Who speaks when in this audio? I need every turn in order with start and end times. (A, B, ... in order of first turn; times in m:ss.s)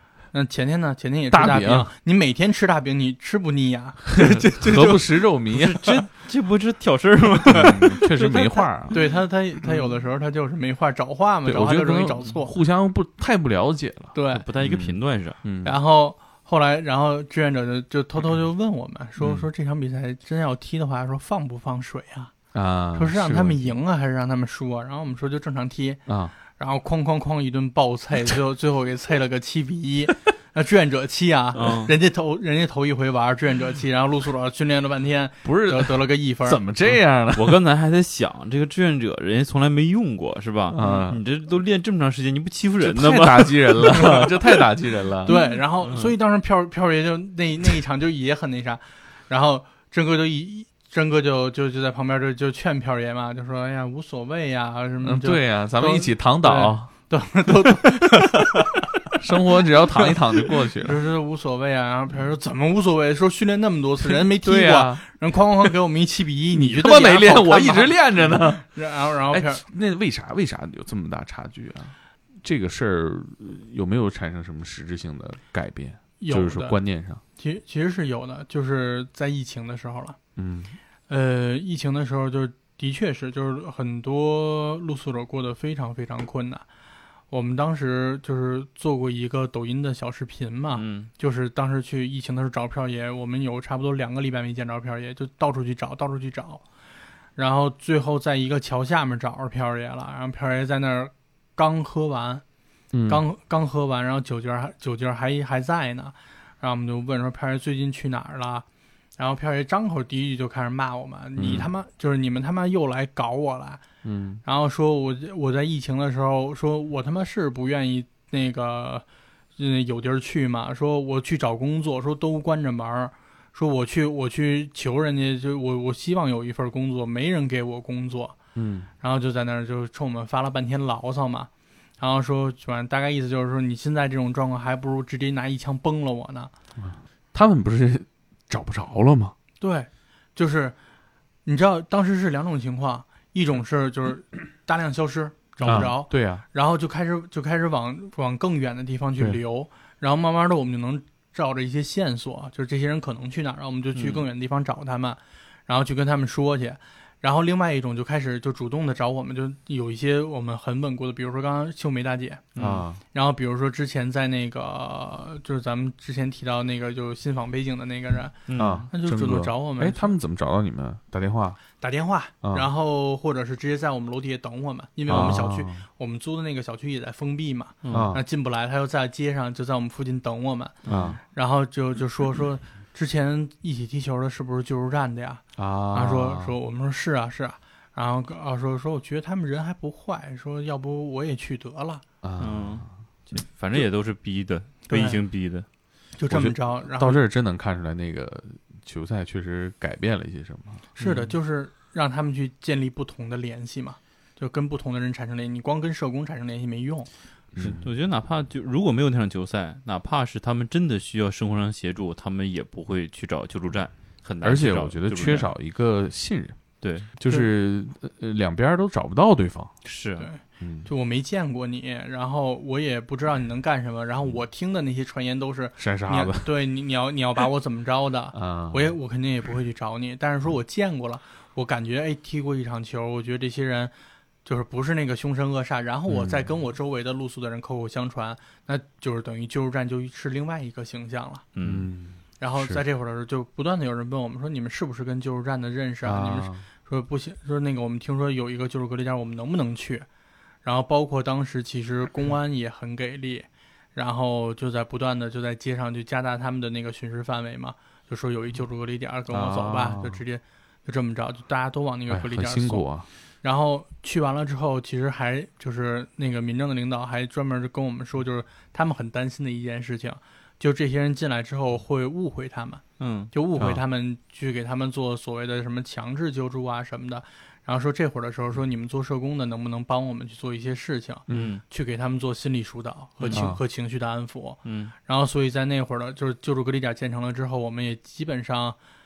0:00.3-0:05.2 A
0:01.3-0:01.9 B
0:04.1-0:05.8 B
0:05.5-0:08.1 C
0:07.5-0:12.5 A
0:07.5-0:09.0 B
0:11.4-0:15.7 B
0:14.1-0:14.4 A
0:14.3-0:15.4 C
0:15.6-0:22.3 A
0:19.2-0:19.5 B
0:22.5-0:23.7 B
0:22.9-0:36.6 A
0:26.0-0:26.3 B
0:31.5-0:31.9 C
0:35.4-0:37.6 B
0:37.3-0:44.2 C
0:40.7-0:41.2 B
0:40.8-0:41.1 A
0:42.8-0:45.3 B
0:45.2-0:58.8 A
0:45.3-0:46.1 C
0:55.0-0:56.9 B
0:59.1-1:01.0 B
0:59.5-1:09.6 A
1:04.0-1:05.1 B
1:06.5-1:08.7 B
1:09.3-1:17.2 B
1:16.2-1:16.8 A
1:17.4-1:20.2 A
1:20.4-1:20.8 B
1:21.1-1:26.6 A
1:27.3-1:36.6 A
1:30.7-1:31.1 C
1:37.4-1:42.4 A
1:42.9-1:43.2 B
1:43.1-1:48.6 A
1:49.2-1:53.8 A
1:51.4-1:51.7 B
1:54.0-1:54.4 B
1:54.4-1:59.0 A
1:59.6-2:08.3 A
2:08.5-2:08.9 B
2:09.0-2:16.5 A
2:16.8-2:19.3 B
2:19.6-2:20.8 A
2:21.4-2:42.5 A
2:25.6-2:26.4 B
2:33.9-2:34.2 C
2:42.5-2:42.8 C
2:42.6-2:43.0 B
2:43.1-2:50.1 A
2:48.5-2:48.9 C
2:48.5-2:51.6 B
2:51.8-3:12.0 A
2:52.4-2:52.7 B
2:55.1-2:55.8 B
2:57.8-2:58.1 C
2:57.9-2:58.2 B
3:00.8-3:01.2 C
3:00.9-3:01.2 B
3:05.6-3:06.5 B
3:12.2-3:12.9 B
3:12.4-3:15.6 C
3:14.9-3:15.2 A
3:16.2-3:17.2 A
3:16.3-3:20.9 B
3:21.0-3:27.1 A
3:21.0-3:21.3 C
3:27.5-3:27.9 B
3:27.6-3:35.5 C
3:34.4-3:39.7 B
3:36.8-3:37.1 C
3:39.8-3:40.3 C
3:40.2-3:53.9 A
3:40.6-3:40.9 B
3:45.8-3:46.5 B
3:48.3-3:48.9 B
3:54.4-4:01.4 A
3:56.1-3:56.5 B
4:01.5-4:01.9 C
4:01.6-4:02.8 B
4:02.4-4:10.1 A
4:06.0-4:06.6 B
4:10.6-4:22.9 A
4:19.3-4:20.2 B
4:22.1-4:23.1 B
4:23.4-4:48.8 A
4:33.0-4:33.3 C
4:41.3-4:41.6 B
4:41.3-4:41.6 C
4:43.2-4:43.5 C
4:43.3-4:43.6 B
4:44.6-4:44.9 C